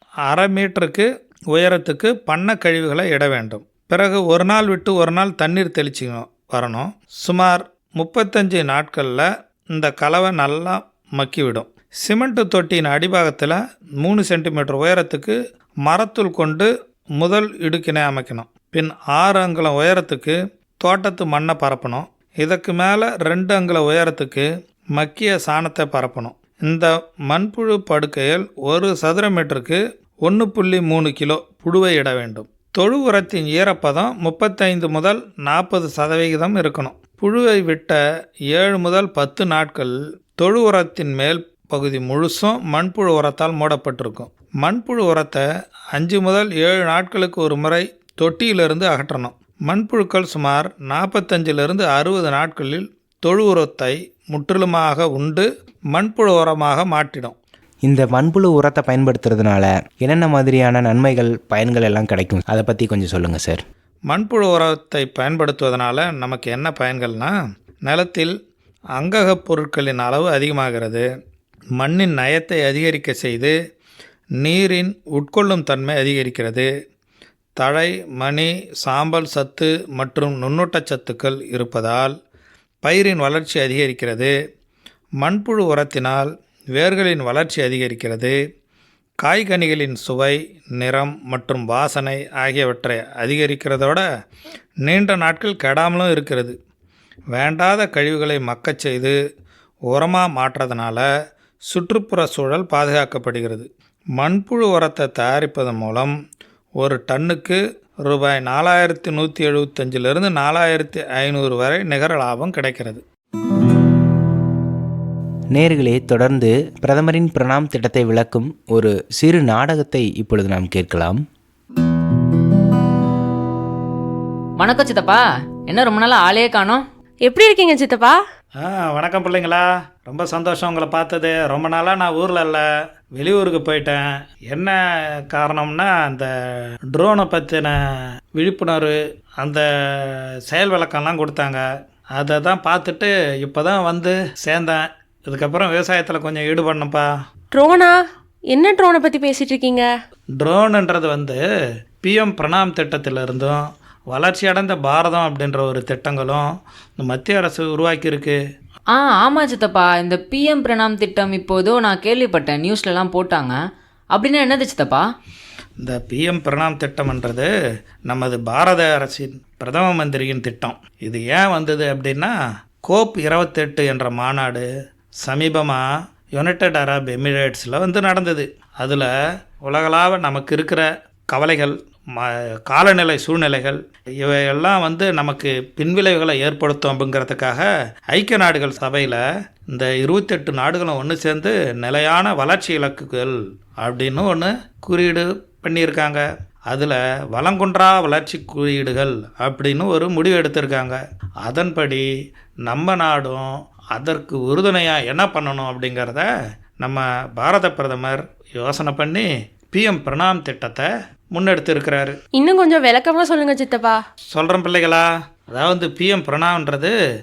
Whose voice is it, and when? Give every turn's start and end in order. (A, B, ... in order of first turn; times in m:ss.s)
0:00.3-0:16.7 A
0:17.2-0:38.0 A
0:38.5-0:57.3 A
0:57.8-1:03.6 B
1:04.1-1:07.3 A
1:07.8-1:08.3 A
1:09.0-1:11.0 A
1:11.8-1:13.5 A
1:14.4-1:16.7 A
1:17.6-1:22.1 A
1:22.8-1:24.3 A
1:25.2-1:28.4 A
1:29.2-1:34.0 A
1:34.8-1:36.6 A
1:37.3-1:39.2 A
1:39.9-1:41.0 A
1:41.7-1:46.1 A
1:46.8-1:53.0 A
1:55.5-2:01.2 B
2:04.6-2:06.8 C
2:07.2-2:08.2 D
2:08.6-2:16.3 A
2:16.9-2:17.8 A
2:18.4-2:21.6 A
2:22.2-2:27.1 A
2:27.5-2:27.9 D
2:28.5-2:29.8 D
2:30.4-2:31.4 A
2:32.0-2:38.4 A
2:38.9-2:43.6 C
2:44.1-2:45.0 C
2:45.8-2:47.5 A
2:48.1-2:52.3 A
2:52.9-2:54.7 A
2:55.2-2:59.1 A
2:59.6-3:22.1 A
3:22.7-3:26.3 A
3:26.8-3:32.2 A
3:32.4-3:34.0 D
3:34.3-3:36.9 A